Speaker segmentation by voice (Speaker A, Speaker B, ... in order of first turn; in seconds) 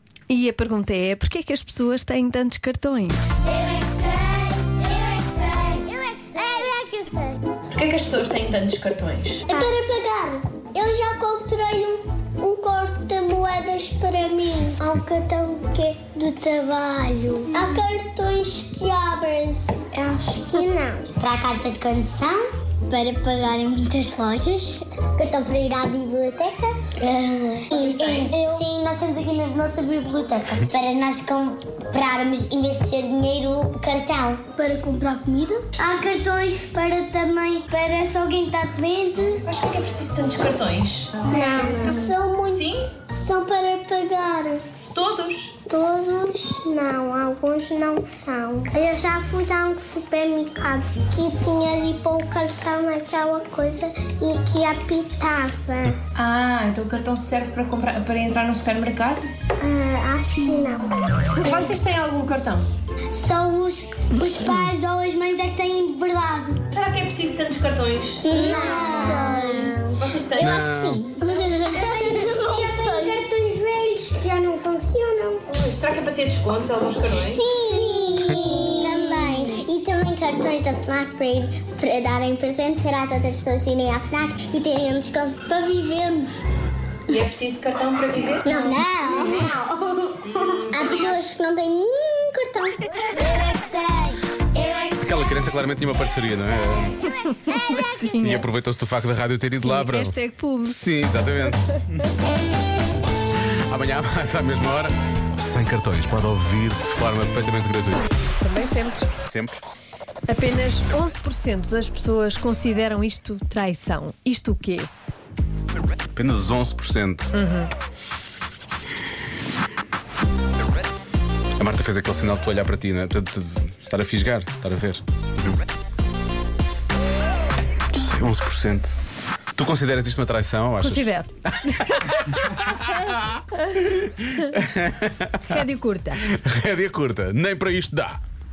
Speaker A: 0.3-3.4, 61.4-62.6, 97.4-98.5, 99.6-100.8, 108.3-109.1, 110.3-114.9, 117.3-117.7, 130.8-132.0, 135.4-136.2
Speaker B: 3.5-7.4, 9.5-39.4, 41.3-44.6, 45.6-56.0, 59.6-61.7, 63.1-66.6, 68.2-75.4, 77.2-86.3, 88.4-95.0, 97.3-97.9
Speaker C: 7.7-9.7, 39.4-42.9, 44.9-45.5, 56.1-59.3, 66.7-68.2, 69.5-70.4, 71.8-73.2, 75.5-77.4, 87.1-88.8, 90.2-91.2
Speaker D: 70.4-71.1, 95.0-97.0, 98.2-101.8, 103.7-108.1, 109.2-109.6, 116.1-117.3, 121.6-125.0, 127.9-129.0, 129.6-135.7, 136.2-138.2